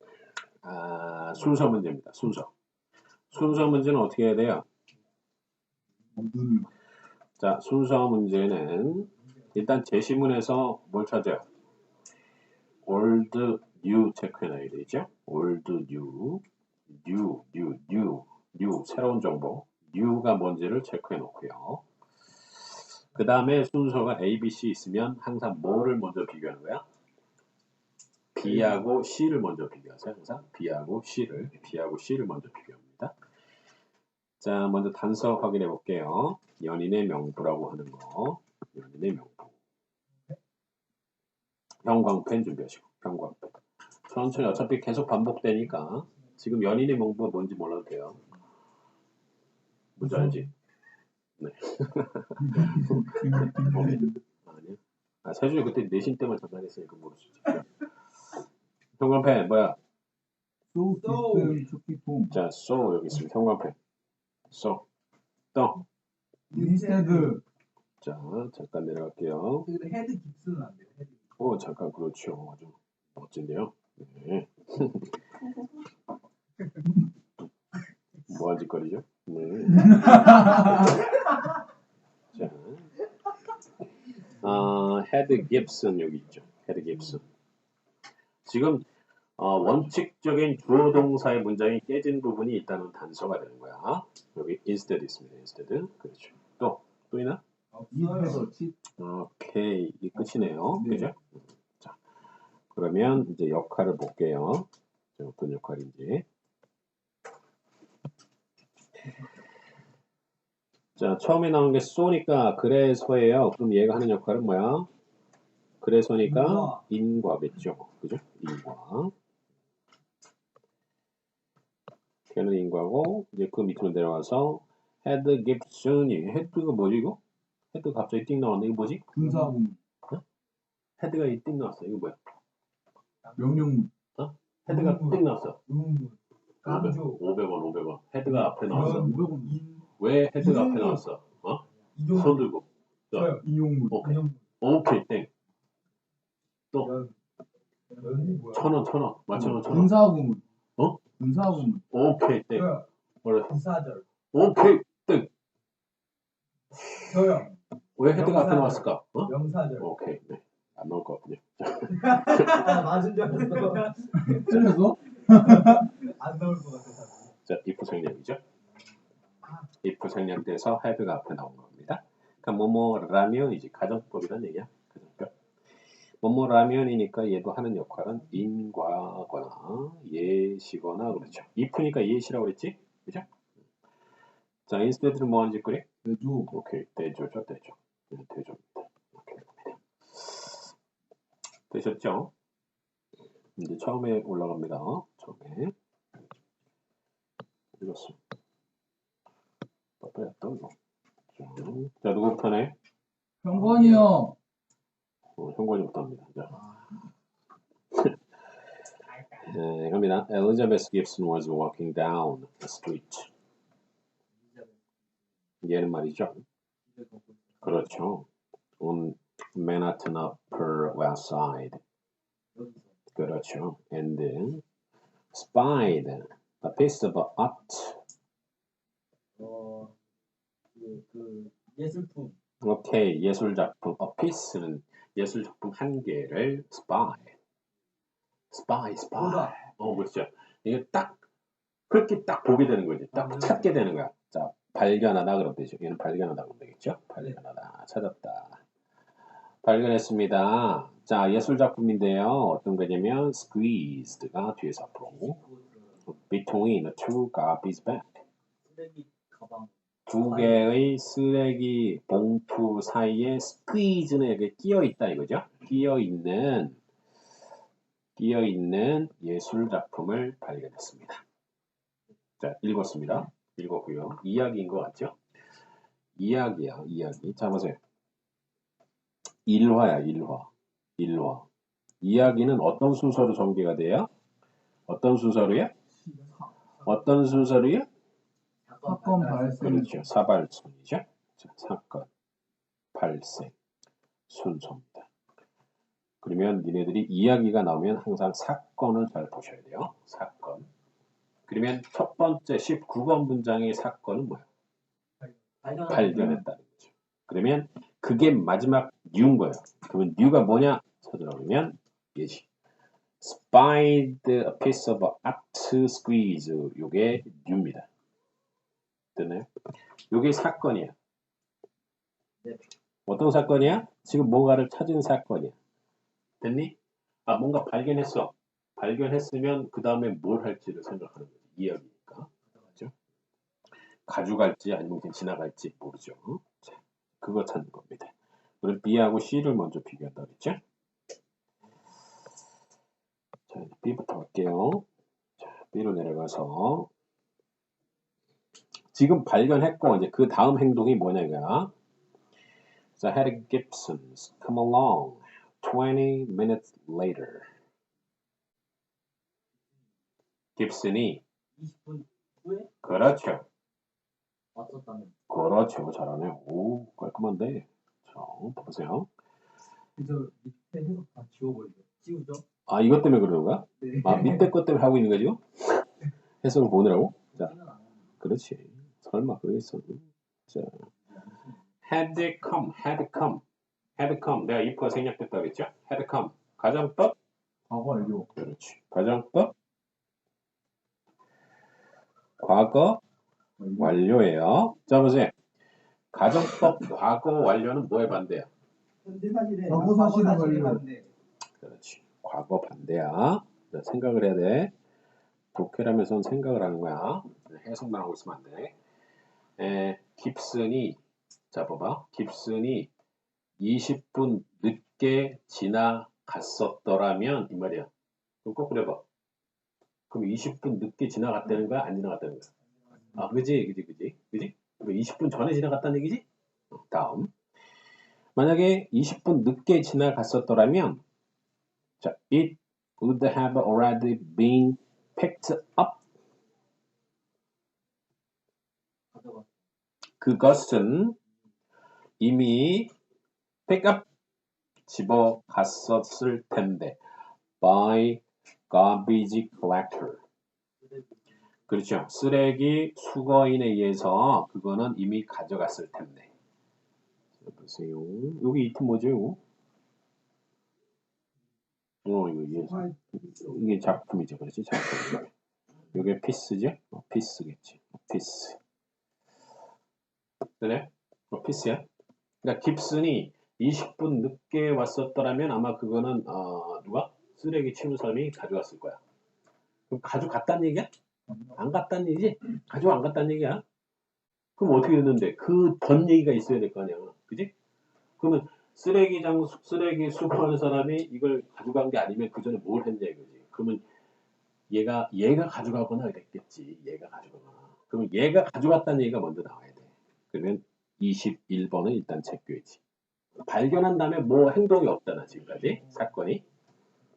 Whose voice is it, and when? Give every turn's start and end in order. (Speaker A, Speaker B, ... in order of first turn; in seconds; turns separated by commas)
Speaker A: 0.6-2.5, Speaker A: 3.3-4.7, Speaker B: 6.2-6.7, Speaker A: 7.4-11.5, Speaker A: 12.8-21.8, Speaker A: 23.1-26.8, Speaker A: 28.3-33.1, Speaker A: 34.4-39.5, Speaker A: 41.8-48.2, Speaker A: 50.0-50.5, Speaker B: 50.0-50.4, Speaker A: 51.4-53.1, Speaker B: 52.4-54.1, Speaker A: 53.7-57.8, Speaker A: 59.0-59.8, Speaker B: 60.7-62.4, Speaker C: 60.9-61.6, Speaker A: 62.3-63.8, Speaker A: 64.5-64.8, Speaker A: 65.5-65.8, Speaker C: 66.5-67.4, Speaker B: 66.5-67.4, Speaker A: 68.0-69.7, Speaker C: 69.7-71.1, Speaker A: 71.4-75.3, Speaker A: 78.3-81.2, Speaker B: 80.1-80.4, Speaker A: 82.3-82.9, Speaker A: 84.3-87.3, Speaker A: 88.5-88.8, Speaker A: 89.4-97.4, Speaker C: 97.7-98.5, Speaker B: 97.9-98.8, Speaker A: 99.0-101.2, Speaker B: 100.2-101.1, Speaker A: 102.7-106.3, Speaker A: 111.0-114.9, Speaker A: 115.8-119.1, Speaker C: 116.3-116.8, Speaker A: 122.3-127.2, Speaker A: 127.7-129.1, Speaker B: 129.1-129.8, Speaker A: 131.0-132.2, Speaker C: 133.2-133.7, Speaker B: 133.4-133.9, Speaker A: 134.2-135.6, Speaker C: 134.7-137.2, Speaker A: 136.6-139.2, Speaker B: 138.3-139.6, Speaker C: 138.7-139.8, Speaker A: 140.0-143.4, Speaker C: 140.4-141.0, Speaker C: 141.9-142.4, Speaker C: 143.1-143.4, Speaker B: 143.4-144.1, Speaker A: 143.9-145.3, Speaker C: 144.0-144.4, Speaker C: 146.8-147.2, Speaker C: 147.9-148.7, Speaker A: 148.5-149.9, Speaker B: 149.3-150.4, Speaker B: 151.2-151.8, Speaker A: 151.8-153.6, Speaker C: 152.5-152.9, Speaker C: 153.5-154.0, Speaker A: 154.3-155.3, Speaker C: 157.0-157.6, Speaker A: 158.0-163.0, Speaker C: 158.1-159.9, Speaker C: 161.9-164.7, Speaker B: 164.1-165.9, Speaker C: 165.3-167.3, Speaker A: 167.4-168.4, Speaker A: 169.8-175.3, Speaker A: 176.2-183.3, Speaker A: 184.7-185.9, Speaker B: 186.0-186.5, Speaker A: 186.5-190.7, Speaker A: 191.7-192.3, Speaker A: 193.6-195.7, Speaker A: 197.8-198.2, Speaker A: 200.0-200.7, Speaker A: 201.3-202.8, Speaker B: 203.4-204.4, Speaker C: 203.5-204.1, Speaker A: 205.4-206.7, Speaker A: 209.3-213.3, Speaker C: 214.5-214.8, Speaker A: 215.6-216.4, Speaker C: 216.9-217.8, Speaker A: 217.6-218.3, Speaker A: 218.8-221.8, Speaker C: 222.6-222.9, Speaker A: 223.1-224.6, Speaker A: 225.3-228.0, Speaker C: 229.4-229.9, Speaker C: 230.8-232.4, Speaker A: 232.6-237.3, Speaker A: 238.5-241.2, Speaker C: 239.2-239.7, Speaker A: 241.9-248.6, Speaker C: 243.2-243.6, Speaker A: 249.6-255.4, Speaker C: 255.2-255.8, Speaker A: 256.1-258.2, Speaker C: 258.7-260.7, Speaker A: 260.1-266.8, Speaker A: 268.2-271.2, Speaker A: 272.4-275.2, Speaker A: 276.2-277.8, Speaker A: 279.5-281.5, Speaker A: 282.0-284.1, Speaker A: 284.9-285.7, Speaker B: 286.1-286.5, Speaker A: 286.8-287.9, Speaker C: 288.7-289.9, Speaker B: 288.8-289.9, Speaker A: 289.6-292.1, Speaker A: 292.9-293.5, Speaker A: 294.3-295.1, Speaker A: 296.2-300.7, Speaker A: 301.5-304.5, Speaker C: 305.6-306.4, Speaker A: 305.8-312.5, Speaker A: 313.2-317.9, Speaker A: 319.1-319.5, Speaker A: 320.1-321.0, Speaker A: 323.1-325.6, Speaker A: 326.4-332.9, Speaker A: 334.1-340.6, Speaker A: 343.5-344.9, Speaker A: 345.4-346.9, Speaker A: 348.9-351.7, Speaker A: 353.0-357.5, Speaker A: 360.6-361.2, Speaker C: 361.6-362.7, Speaker A: 362.8-363.5, Speaker C: 364.6-365.1, Speaker A: 365.3-369.1, Speaker C: 370.0-372.4, Speaker A: 372.7-375.9, Speaker C: 373.8-374.5, Speaker A: 376.4-377.5, Speaker C: 377.4-377.9, Speaker A: 378.2-380.9, Speaker A: 381.9-383.4, Speaker A: 384.0-387.1, Speaker B: 387.7-388.3, Speaker A: 388.3-389.5, Speaker A: 392.4-393.0, Speaker B: 393.6-394.0, Speaker A: 393.8-395.3, Speaker A: 396.1-398.5, Speaker C: 399.0-401.1, Speaker B: 399.7-400.8, Speaker A: 401.6-404.7, Speaker A: 405.5-408.7, Speaker A: 409.6-411.0, Speaker A: 411.5-412.9, Speaker A: 413.6-417.9, Speaker A: 418.4-419.0, Speaker A: 420.1-422.5, Speaker A: 423.1-427.3, Speaker A: 428.4-431.0, Speaker A: 432.0-436.0, Speaker C: 439.1-439.5, Speaker A: 440.2-441.2, Speaker A: 442.2-442.9, Speaker A: 443.7-444.1, Speaker A: 444.9-447.0, Speaker A: 447.6-450.2, Speaker A: 451.7-456.3, Speaker A: 457.4-459.4, Speaker A: 462.1-465.3, Speaker A: 465.9-468.6, Speaker A: 470.6-471.9, Speaker A: 472.4-479.0, Speaker A: 479.9-480.9, Speaker A: 481.6-483.6, Speaker A: 484.6-487.5, Speaker A: 488.2-493.9, Speaker A: 494.7-502.8, Speaker A: 503.4-506.4